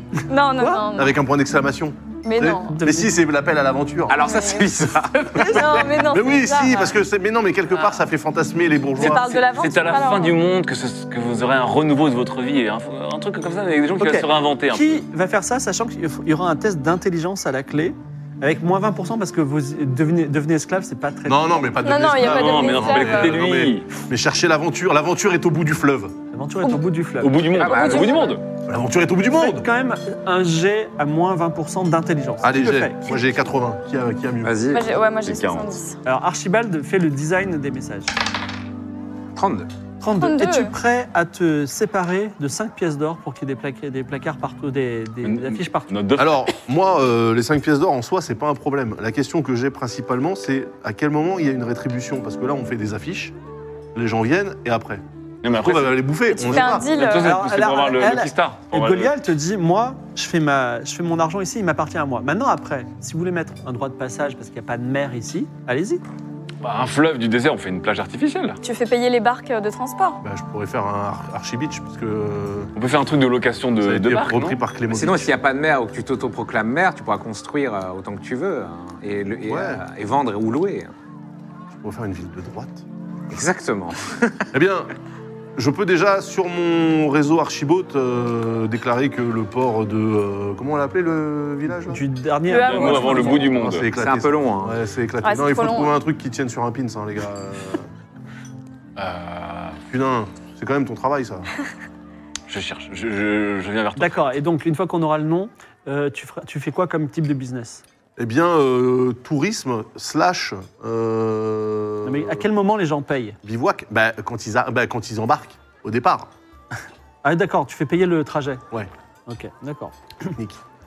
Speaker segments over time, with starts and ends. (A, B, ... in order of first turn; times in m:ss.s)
0:00.3-0:01.1 A
0:00.6-0:00.9 B
0:00.9-0:04.2 C
0:02.2-0:02.8 A
0:02.7-0:03.1 B
0:04.1-0:05.7 D
0:04.2-0:04.7 A
0:05.3-0:05.9 B
0:05.4-0:07.0 A
0:05.9-0:09.2 C
0:09.0-0:10.4 A
0:09.0-0:15.0 E
0:14.0-0:21.8 B
0:21.2-0:26.1 C
0:21.8-0:23.4 A
0:22.2-0:23.9 E
0:26.3-0:27.4 B
0:27.2-0:28.4 E
0:27.5-0:28.3 D
0:27.8-0:28.3 A
0:28.7-0:29.7 C
0:29.3-0:33.2 B
0:32.4-0:34.8 C
0:34.4-0:34.8 D
0:34.7-0:36.0 A
0:35.2-0:35.8 E
0:36.0-0:38.1 B
0:39.4-0:39.7 D
0:40.0-0:45.9 B
0:40.2-0:40.7 A
0:45.2-0:46.5 E
0:46.2-0:53.3 C
0:53.9-0:56.9 C
0:55.4-0:59.1 E
0:56.3-0:57.3 A
0:57.1-1:06.0 B
1:06.6-1:08.6 E
1:08.6-1:10.2 A
1:10.2-1:12.7 C
1:12.8-1:14.6 E
1:13.8-1:15.4 C
1:14.9-1:20.9 D
1:19.4-1:19.8 C
1:21.7-1:22.8 C
1:23.3-1:24.5 D
1:24.5-1:24.9 C
1:25.6-1:32.0 C
1:31.8-1:33.5 B
1:32.5-1:33.5 A
1:32.6-1:33.9 E
1:33.4-1:37.9 C
1:33.9-1:34.8 D
1:35.2-1:35.9 A
1:39.0-1:39.8 E
1:39.9-1:41.5 C
1:42.5-1:44.4 E
1:44.0-1:47.8 B
1:48.2-1:52.4 C
1:52.0-1:53.4 B
1:53.4-1:56.3 C
1:57.2-1:58.6 B
1:59.3-2:00.4 B